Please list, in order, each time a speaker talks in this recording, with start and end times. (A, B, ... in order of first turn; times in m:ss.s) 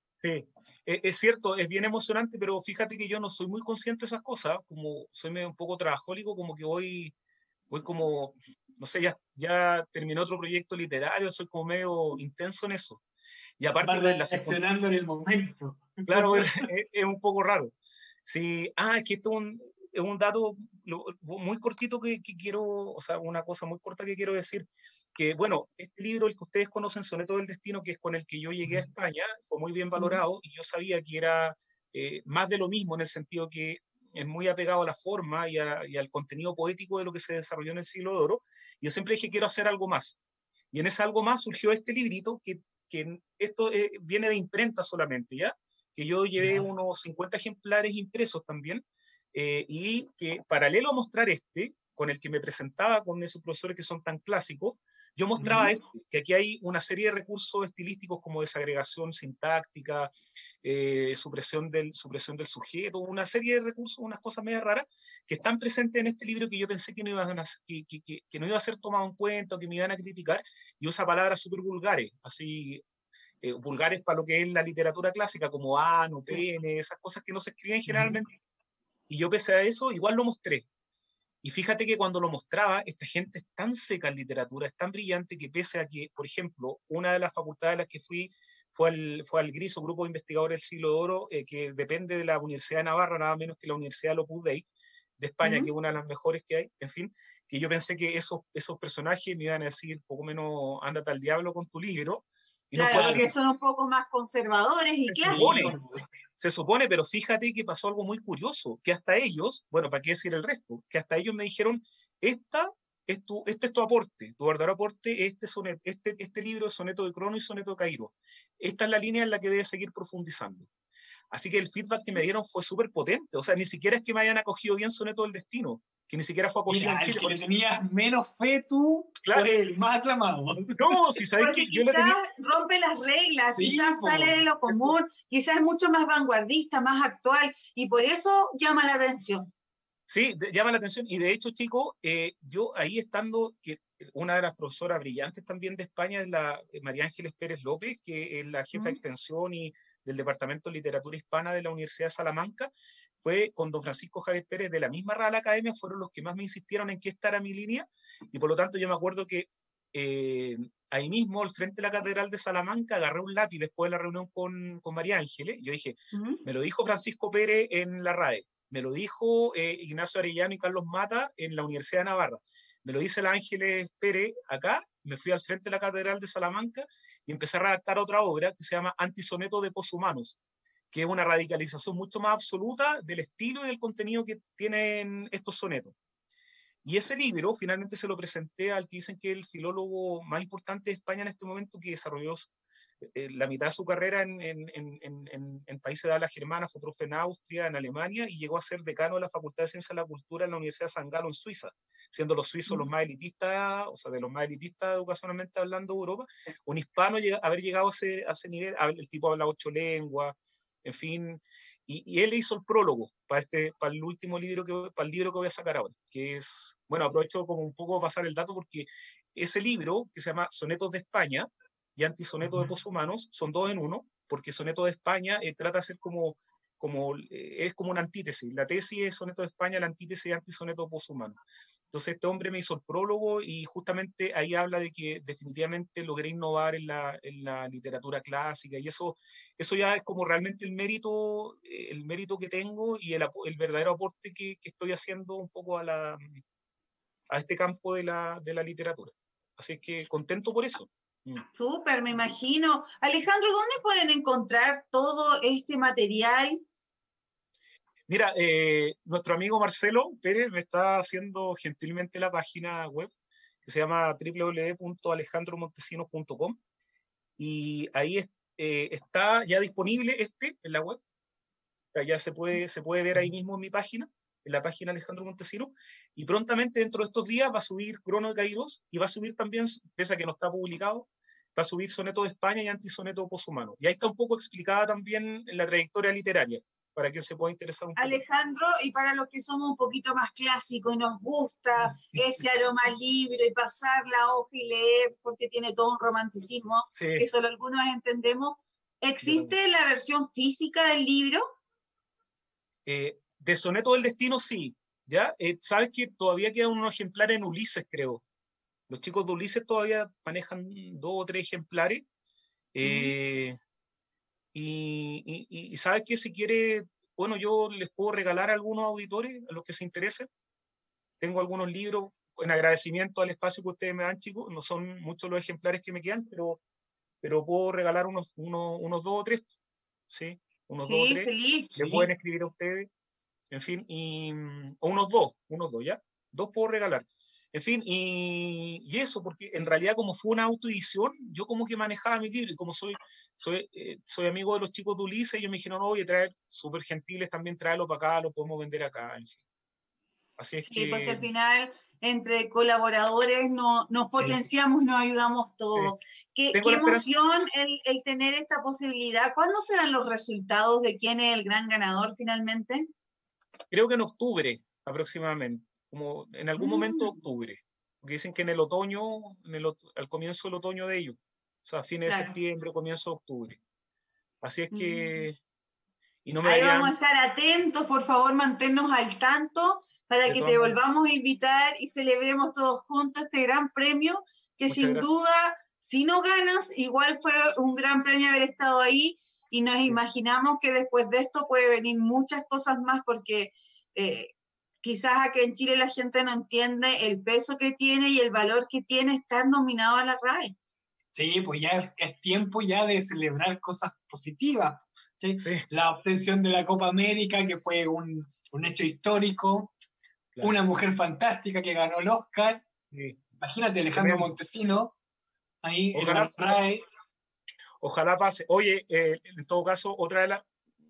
0:00.2-0:07.1 A
0:07.7-0:13.0 A
0:13.6-0:14.6 A
0:13.8-0:16.6 B
0:16.1-0:17.7 A
0:18.2-0:40.2 A
0:40.7-1:00.1 A
0:46.4-0:46.6 B
0:55.4-0:55.7 B
1:00.6-1:12.8 A
1:13.4-1:18.3 A
1:17.9-1:18.1 B
1:19.1-1:20.7 A
1:21.4-1:34.6 A
1:35.2-1:43.3 A
1:35.4-1:35.7 C
1:42.7-1:45.8 C
1:42.9-1:43.3 B
1:45.0-1:45.7 A
1:45.3-1:46.0 B
1:46.4-2:00.7 A
2:01.3-2:07.4 A
2:06.7-2:10.7 B
2:10.7-2:12.2 A
2:11.4-2:19.5 C
2:13.5-2:15.0 B
2:20.1-3:00.4 A
2:28.7-2:29.0 C
2:46.1-2:46.4 C
3:00.9-3:05.9 A
3:06.8-3:12.5 A
3:13.0-3:51.4 A
3:51.9-4:06.4 A
4:07.3-4:11.4 A
4:11.6-4:16.6 C
4:18.1-4:23.1 A
4:23.6-4:26.6 A
4:27.4-4:31.0 A
4:31.9-4:48.2 A
4:48.0-5:01.4 C
4:56.9-4:57.3 A
4:59.2-4:59.6 A
5:02.8-5:08.2 A
5:08.9-5:12.0 A
5:12.7-5:13.5 A
5:12.8-5:13.1 C
5:14.5-5:20.3 A
5:21.2-5:26.6 A
5:27.2-5:29.5 A
5:30.1-5:32.9 A
5:30.8-5:32.1 C
5:33.5-5:49.4 A
5:50.4-5:51.2 A
5:50.6-6:02.9 C
5:56.5-5:57.1 A
6:03.7-6:13.6 A
6:06.6-6:07.2 C
6:12.0-6:12.4 C
6:14.4-6:15.4 A
6:14.7-6:15.2 C
6:16.2-6:16.9 A
6:16.4-6:34.3 C
6:20.2-6:20.8 A
6:24.7-6:25.1 A
6:34.8-6:40.5 C
6:41.1-6:49.7 B
6:45.4-6:45.6 A
6:50.4-6:52.6 B
6:52.9-6:53.2 A
6:53.4-6:54.9 B
6:53.9-6:54.3 A
6:55.6-6:56.8 B
6:55.9-6:56.6 A
6:57.8-7:00.5 A